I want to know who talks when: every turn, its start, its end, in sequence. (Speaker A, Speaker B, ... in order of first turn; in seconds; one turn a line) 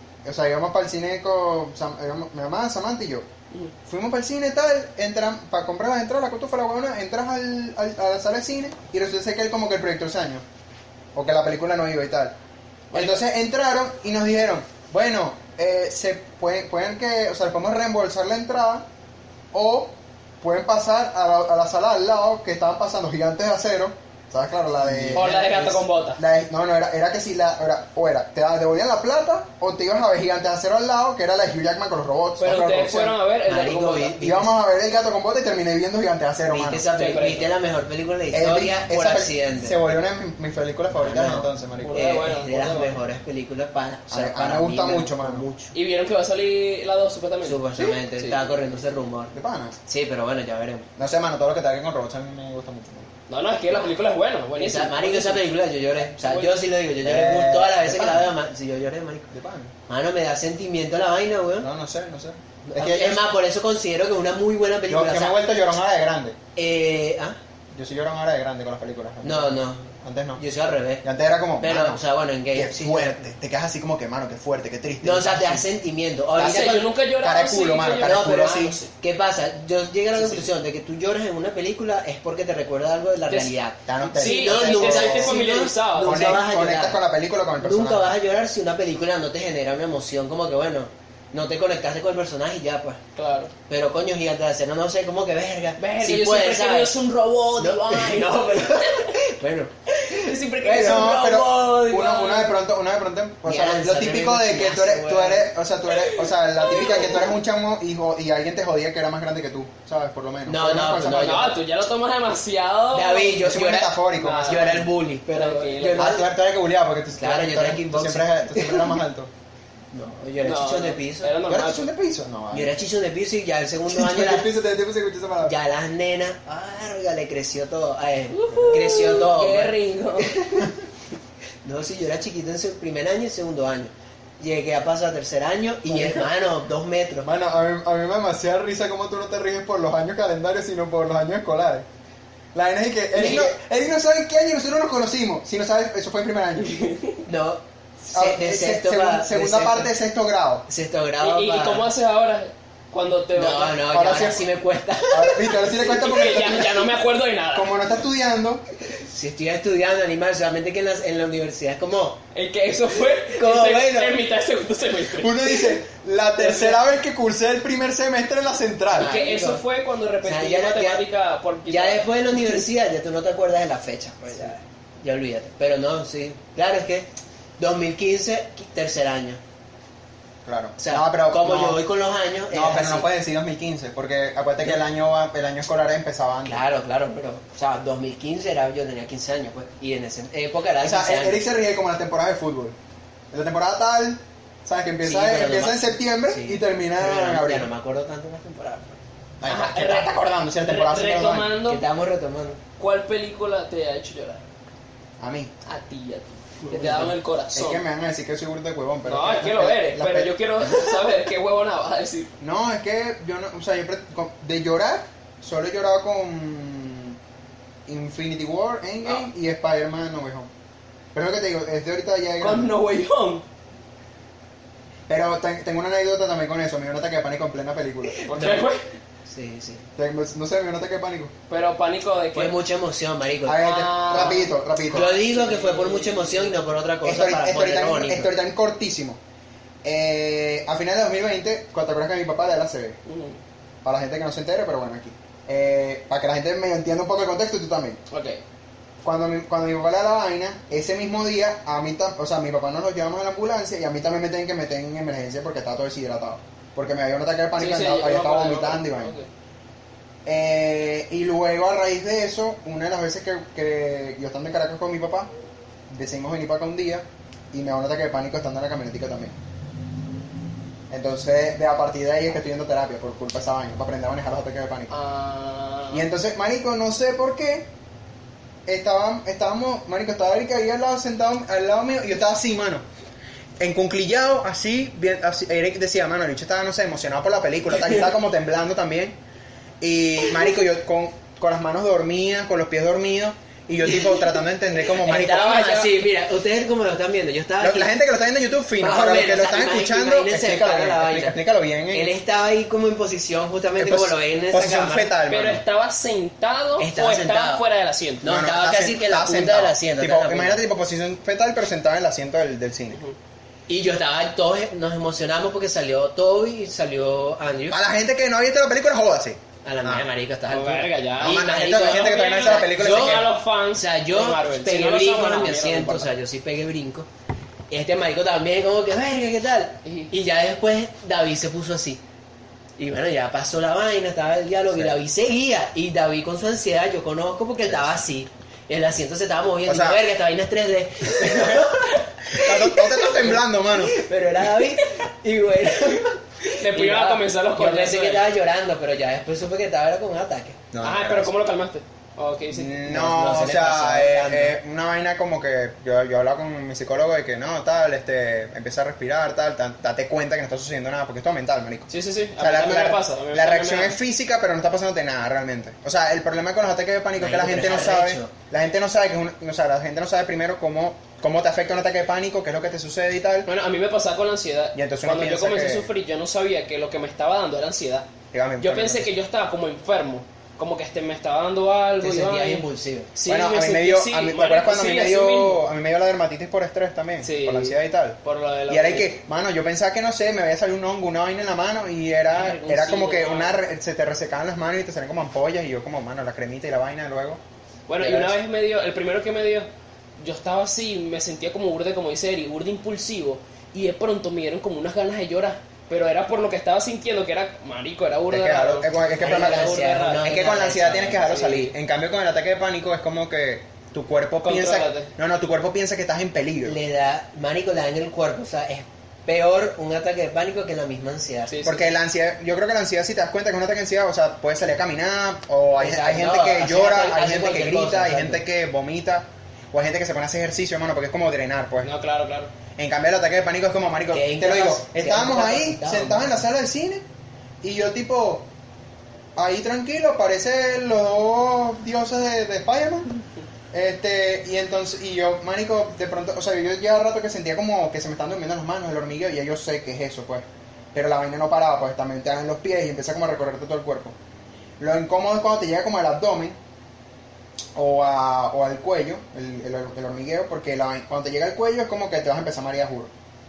Speaker A: 0.2-3.3
Speaker A: 3.9-10.4
Speaker A: 11.1-12.4
Speaker B: 12.9-13.2
Speaker A: 12.9-18.9
Speaker A: 19.5-33.1
Speaker C: 24.8-25.7
Speaker B: 25.1-26.2
Speaker B: 32.4-34.2
Speaker C: 33.5-34.5
Speaker A: 34.2-36.9
Speaker C: 36.5-39.8
Speaker B: 36.9-37.5
Speaker A: 38.3-42.1
Speaker C: 41.0-45.7
Speaker B: 41.8-43.0
Speaker A: 44.1-45.5
Speaker B: 45.7-47.6
Speaker C: 47.4-49.3
Speaker A: 49.3-49.8
Speaker C: 49.9-50.9
Speaker A: 51.0-53.1
Speaker B: 53.3-55.5
Speaker C: 54.6-59.3
Speaker B: 56.1-56.6
Speaker A: 57.0-58.3
Speaker A: 59.3-59.7
Speaker C: 59.9-61.7
Speaker A: 61.6-63.2
Speaker C: 62.6-65.4
Speaker A: 64.9-66.4
Speaker C: 66.5-67.4
Speaker A: 67.7-70.4
Speaker C: 69.2-71.0
Speaker A: 71.0-75.7
Speaker C: 71.6-73.3
Speaker C: 75.0-76.9
Speaker B: 76.4-78.9
Speaker A: 77.2-78.8
Speaker C: 78.0-87.0
Speaker A: 80.1-80.5
Speaker B: 83.3-83.5
Speaker A: 83.9-85.4
Speaker B: 84.1-86.4
Speaker A: 86.0-88.1
Speaker C: 87.6-93.0
Speaker B: 93.2-93.5
Speaker C: 93.7-97.0
Speaker B: 95.8-99.2
Speaker C: 97.6-100.4
Speaker B: 100.0-102.5
Speaker A: 100.6-111.5
Speaker C: 103.5-105.5
Speaker B: 106.7-107.2
Speaker C: 110.5-111.5
Speaker B: 111.1-113.5
Speaker C: 112.9-116.3
Speaker A: 113.4-114.8
Speaker B: 114.2-116.2
Speaker A: 116.0-119.3
Speaker C: 117.2-119.0
Speaker C: 119.9-121.3
Speaker B: 120.4-121.9
Speaker A: 121.5-122.7
Speaker C: 122.5-124.5
Speaker A: 123.9-125.5
Speaker C: 125.4-130.7
Speaker B: 128.3-130.3
Speaker C: 131.6-137.3
Speaker A: 135.9-136.3
Speaker A: 137.2-141.9
Speaker A: 142.5-146.8
Speaker C: 143.1-143.5
Speaker B: 146.6-147.2
Speaker C: 147.3-149.9
Speaker A: 148.1-150.7
Speaker C: 150.7-151.9
Speaker B: 151.2-153.9
Speaker C: 153.3-155.7
Speaker A: 153.9-154.5
Speaker A: 155.1-156.9
Speaker B: 155.7-157.7
Speaker A: 157.5-158.6
Speaker C: 159.1-162.2
Speaker B: 162.3-165.8
Speaker C: 163.3-164.2
Speaker A: 165.2-169.1
Speaker B: 166.4-166.8
Speaker C: 168.9-169.6
Speaker B: 169.0-172.1
Speaker C: 170.2-171.0
Speaker C: 171.7-179.4
Speaker A: 180.4-181.8
Speaker C: 180.8-183.1
Speaker A: 182.5-186.6
Speaker C: 186.4-191.4
Speaker A: 190.8-192.8
Speaker A: 193.3-197.7
Speaker C: 195.0-199.0
Speaker A: 199.4-201.6
Speaker B: 199.4-201.8
Speaker C: 201.6-202.6
Speaker B: 202.8-204.4
Speaker A: 205.2-205.5
Speaker B: 205.6-207.8
Speaker C: 206.7-207.1
Speaker A: 207.5-211.1
Speaker B: 209.1-212.3
Speaker A: 212.4-217.2
Speaker A: 217.9-220.5
Speaker A: 221.1-222.7
Speaker B: 222.4-223.4
Speaker A: 225.1-228.5
Speaker B: 228.2-228.8
Speaker C: 228.3-228.7
Speaker C: 229.3-229.8
Speaker A: 230.0-231.3
Speaker B: 231.5-232.5
Speaker C: 232.3-238.3
Speaker A: 233.4-235.1
Speaker B: 233.6-236.6
Speaker A: 237.0-239.2
Speaker A: 239.8-243.0
Speaker B: 243.1-243.4
Speaker A: 243.8-248.0
Speaker B: 248.1-248.4
Speaker A: 249.0-259.1
Speaker B: 257.6-259.3
Speaker A: 260.3-265.3
Speaker A: 265.9-269.4
Speaker A: 270.9-274.9
Speaker B: 274.9-276.1
Speaker A: 275.9-277.7
Speaker A: 278.7-282.8
Speaker A: 283.6-289.2
Speaker A: 289.8-295.6
Speaker C: 294.8-297.9
Speaker B: 295.1-295.9
Speaker A: 297.6-302.1
Speaker C: 298.8-301.4
Speaker C: 301.9-305.2
Speaker A: 303.8-305.6
Speaker B: 305.3-308.3
Speaker C: 306.8-307.6
Speaker C: 308.2-310.6
Speaker A: 308.2-313.0
Speaker C: 313.7-317.8
Speaker A: 317.7-320.1
Speaker C: 319.6-327.1
Speaker B: 320.5-326.1
Speaker A: 321.2-323.3
Speaker C: 327.7-332.0
Speaker B: 329.8-330.1
Speaker C: 332.8-350.6
Speaker A: 339.7-340.0
Speaker A: 342.3-344.0
Speaker B: 346.5-348.3
Speaker A: 350.7-351.3
Speaker B: 350.8-352.8
Speaker A: 352.5-373.5
Speaker C: 352.9-354.6
Speaker B: 361.9-363.9
Speaker C: 367.2-368.3
Speaker B: 373.4-378.1
Speaker A: 374.7-375.9
Speaker A: 378.3-379.1
Speaker B: 378.6-385.7
Speaker C: 382.0-383.1
Speaker A: 383.3-388.2
Speaker B: 387.2-389.1
Speaker A: 388.7-397.4
Speaker B: 392.3-393.6
Speaker B: 397.9-399.7
Speaker A: 398.0-398.3
Speaker B: 400.2-410.3
Speaker A: 408.3-416.8
Speaker C: 409.2-411.4
Speaker B: 411.3-411.7
Speaker B: 414.4-415.1
Speaker C: 416.6-421.6
Speaker B: 421.5-421.9
Speaker A: 421.6-431.9
Speaker C: 425.8-428.4
Speaker B: 431.8-432.5
Speaker A: 432.8-437.0
Speaker C: 434.1-436.3
Speaker A: 437.6-438.4
Speaker A: 439.4-454.1
Speaker A: 454.8-456.6
Speaker A: 457.8-463.1